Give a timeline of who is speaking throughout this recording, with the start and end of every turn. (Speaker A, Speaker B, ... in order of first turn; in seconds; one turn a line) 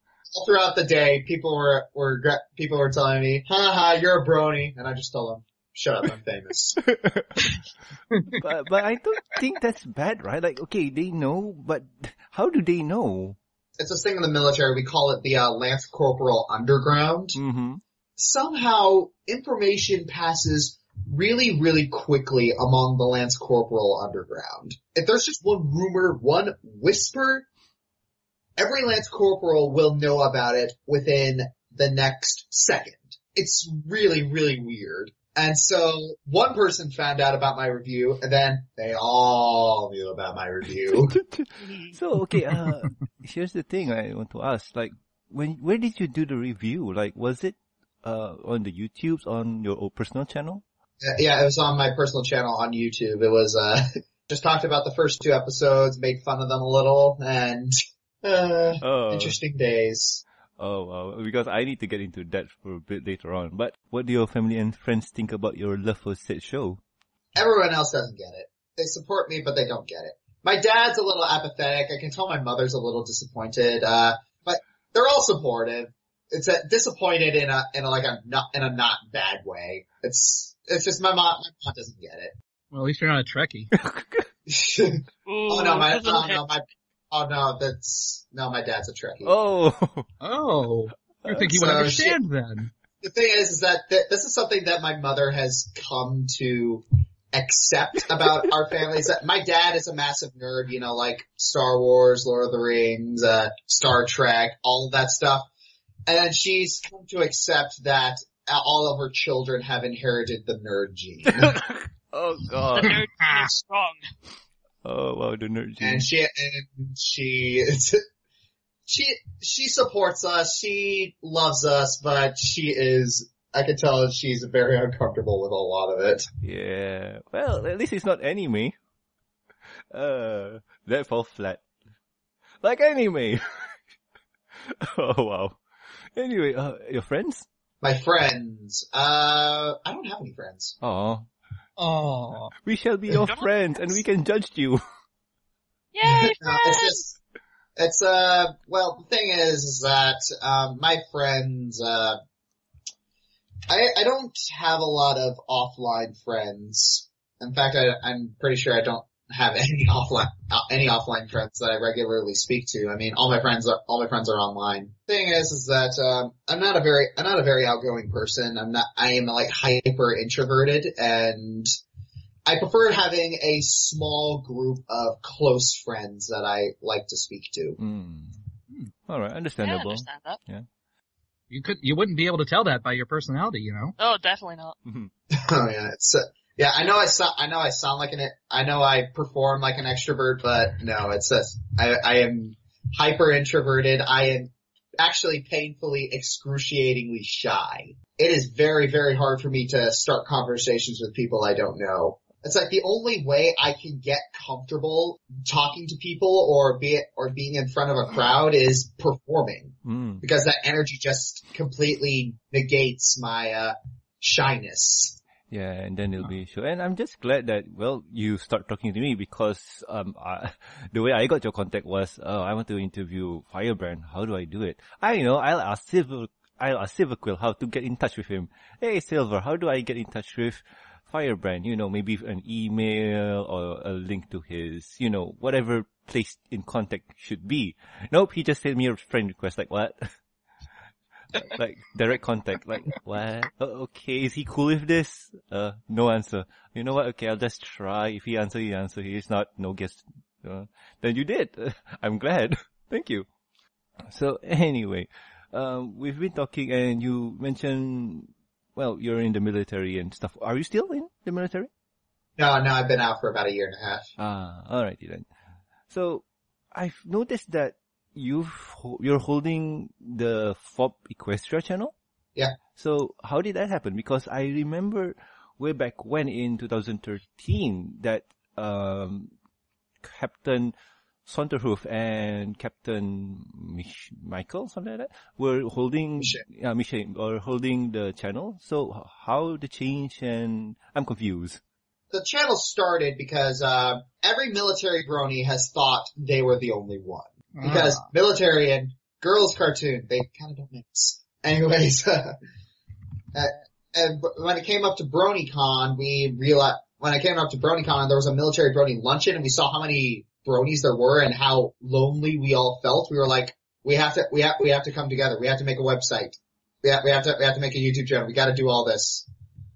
Speaker A: 0.3-6.8
Speaker B: 6.8-7.6
Speaker C: 8.1-8.4
Speaker B: 8.3-13.4
Speaker A: 13.8-17.4
Speaker B: 17.4-17.8
Speaker A: 18.2-27.5
Speaker A: 28.6-41.2
Speaker B: 41.1-50.6
Speaker D: 41.7-41.9
Speaker A: 51.0-60.2
Speaker B: 58.8-59.4
Speaker B: 60.6-66.8
Speaker A: 67.4-82.3
Speaker C: 82.7-83.7
Speaker B: 83.7-84.3
Speaker A: 84.5-89.3
Speaker D: 85.3-86.4
Speaker B: 89.2-90.1
Speaker C: 90.2-92.7
Speaker B: 91.2-91.5
Speaker A: 91.5-92.2
Speaker A: 93.0-105.5
Speaker A: 106.1-111.5
Speaker B: 111.3-113.0
Speaker D: 112.7-114.0
Speaker B: 114.8-116.1
Speaker A: 115.8-118.0
Speaker A: 118.9-126.3
Speaker B: 126.4-128.8
Speaker B: 129.9-131.7
Speaker B: 132.6-133.8
Speaker B: 134.6-135.6
Speaker B: 136.2-137.5
Speaker A: 137.8-140.8
Speaker B: 140.8-141.3
Speaker C: 141.8-142.5
Speaker B: 142.6-144.8
Speaker D: 143.2-143.5
Speaker D: 145.9-147.0
Speaker A: 146.1-147.2
Speaker A: 147.8-152.2
Speaker A: 153.7-171.7
Speaker A: 172.5-177.8
Speaker B: 177.8-178.4
Speaker B: 179.1-180.7
Speaker D: 179.6-180.4
Speaker C: 181.5-183.9
Speaker D: 184.0-184.8
Speaker B: 184.9-185.1
Speaker A: 185.3-215.2
Speaker B: 209.8-210.2
Speaker B: 215.5-240.2
Speaker B: 241.4-253.3
Speaker B: 254.1-261.7
Speaker A: 262.4-264.1
Speaker B: 264.2-265.3
Speaker B: 265.9-271.9
Speaker B: 272.8-279.3
Speaker B: 280.0-280.7
Speaker B: 281.3-291.6
Speaker A: 292.1-302.4
Speaker C: 297.6-298.0
Speaker A: 303.3-319.3